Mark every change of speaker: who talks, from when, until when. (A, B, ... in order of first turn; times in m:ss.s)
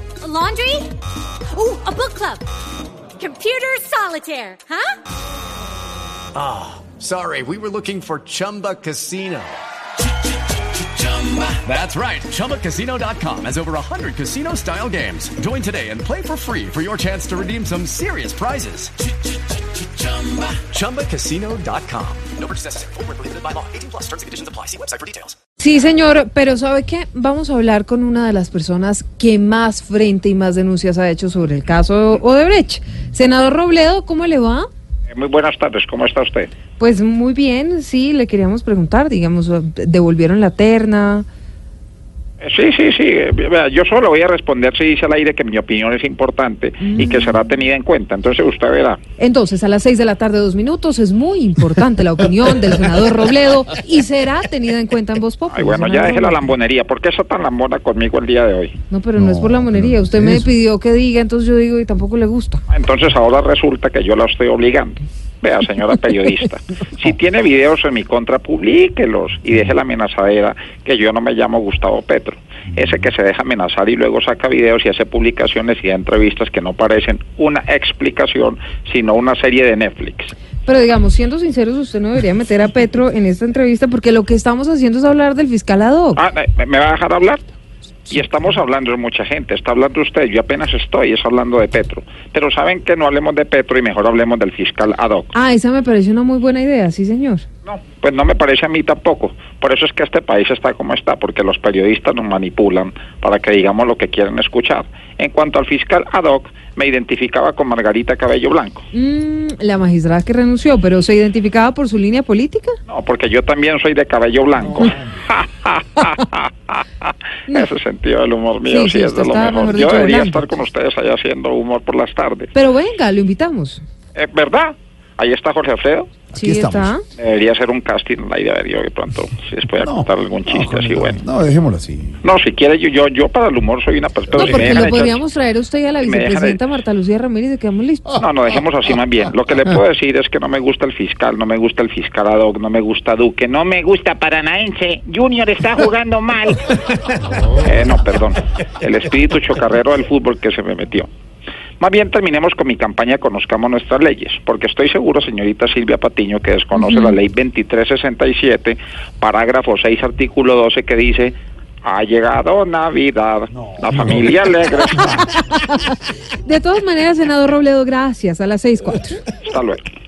0:00.2-0:00.9 A
0:01.5-0:02.4 A
0:03.2-0:05.0 A
0:06.3-0:09.6 B
0:11.1-0:18.9 B
0:20.0-0:25.3 B
0:25.6-0:34.7 C
0:35.1-0:36.5 D
0:36.8-0:41.2 C
0:42.4-0:49.0 D
0:46.8-0:47.4 C
0:49.2-0:56.5 C
0:55.5-0:58.7 D
0:58.9-1:02.6 C
0:59.2-1:00.4 E
1:02.7-1:20.3 D
1:20.6-1:26.2 C
1:26.2-1:27.4 D
1:28.1-1:35.3 D
1:35.3-1:37.4 C
1:37.6-1:48.8 D
1:48.9-1:52.8 C
1:52.9-2:02.5 D
1:54.7-1:55.0 E
1:58.7-2:00.4 C
2:02.5-2:03.8 C
2:04.1-2:06.2 D
2:06.3-2:06.9 E
2:06.3-2:07.0 C
2:07.2-2:11.2 D
2:09.8-2:12.2 E
2:12.2-2:15.2 D
2:14.3-2:18.2 C
2:14.6-2:14.8 E
2:16.0-2:16.6 D
2:18.1-2:31.1 D
2:31.8-2:45.2 D
2:36.7-2:37.1 C
2:43.5-2:44.2 E
2:45.0-2:49.2 C
2:49.4-2:49.9 D